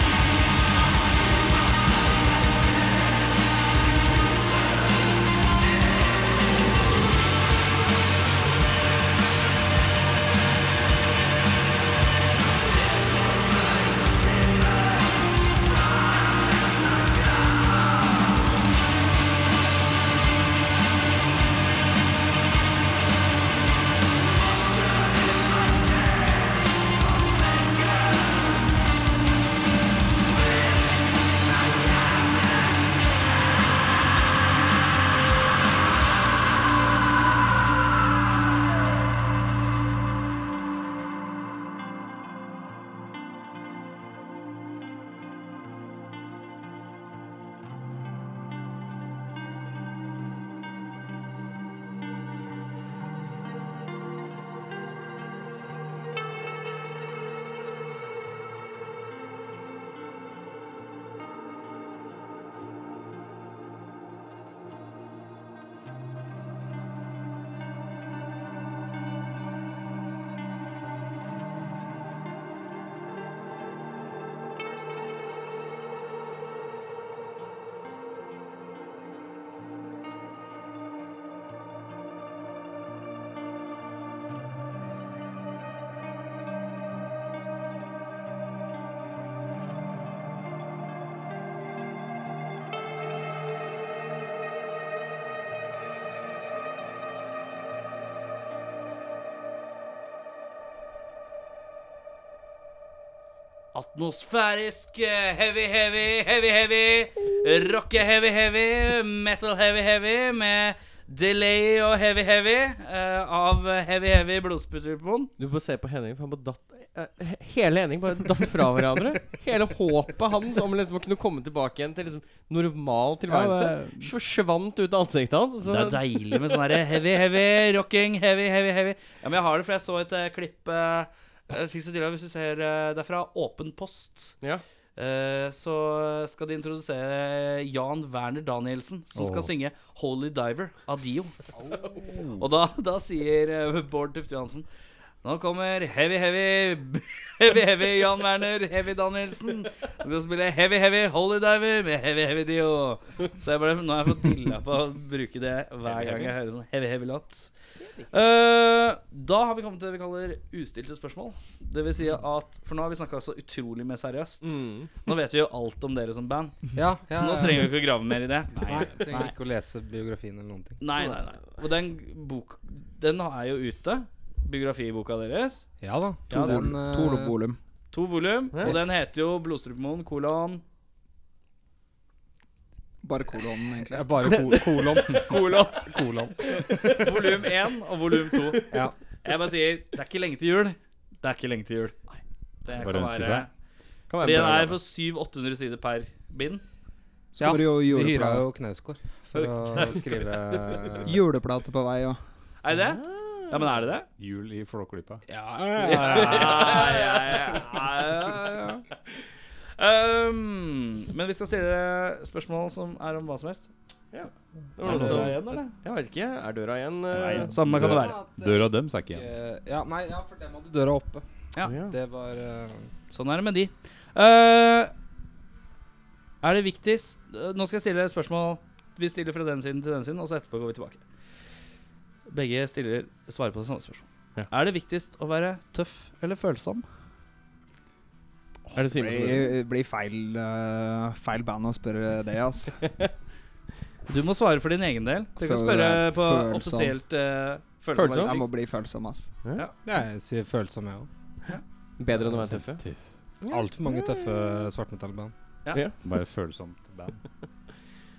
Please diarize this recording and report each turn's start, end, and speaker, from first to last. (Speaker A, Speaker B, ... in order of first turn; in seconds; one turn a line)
Speaker A: 103.7-115.3
Speaker B: 115.4-126.4
Speaker C: 123.4-123.9
Speaker A: 125.6-134.3
Speaker A: 134.9-141.4
Speaker D: 139.2-139.5
Speaker C: 141.7-142.3
Speaker A: 142.3-144.7
Speaker A: 145.2-157.5
Speaker B: 155.9-156.3
Speaker A: 158.1-169.3
Speaker B: 164.4-164.9
Speaker C: 166.7-167.8
Speaker C: 168.6-170.8
Speaker A: 170.8-175.7
Speaker C: 175.8-177.4
Speaker A: 176.3-176.6
Speaker E: 176.3-177.6
Speaker A: 177.9-180.6
Speaker C: 178.6-179.0
Speaker E: 183.0-184.3
Speaker C: 183.9-187.3
Speaker B: 185.2-185.5
Speaker A: 185.3-185.9
Speaker A: 186.9-188.7
Speaker A: 189.2-191.9
Speaker A: 192.6-193.5
Speaker D: 192.7-193.5
Speaker B: 194.1-194.8
Speaker A: 194.2-196.6
Speaker E: 197.3-198.5
Speaker C: 197.4-201.2
Speaker A: 199.4-199.9
Speaker E: 201.0-202.2
Speaker A: 202.6-204.1
Speaker B: 202.9-203.7
Speaker D: 204.2-205.2
Speaker C: 205.3-206.9
Speaker A: 205.8-208.8
Speaker B: 205.9-207.4
Speaker A: 209.8-213.7
Speaker B: 214.1-217.5
Speaker A: 214.8-215.7
Speaker D: 214.8-215.3
Speaker A: 217.1-218.2
Speaker C: 217.7-221.2
Speaker D: 217.7-219.2
Speaker B: 221.6-221.9
Speaker C: 221.8-222.9
Speaker A: 223.1-224.9
Speaker A: 226.4-231.0
Speaker A: 232.3-236.8
Speaker B: 238.7-239.6
Speaker E: 238.7-242.9
Speaker A: 244.1-248.5
Speaker E: 245.4-246.9
Speaker B: 247.9-248.3
Speaker E: 248.0-249.3
Speaker C: 249.8-251.1
Speaker B: 252.0-252.8
Speaker D: 252.2-253.0
Speaker B: 253.4-254.7
Speaker C: 253.5-255.3
Speaker D: 256.0-257.2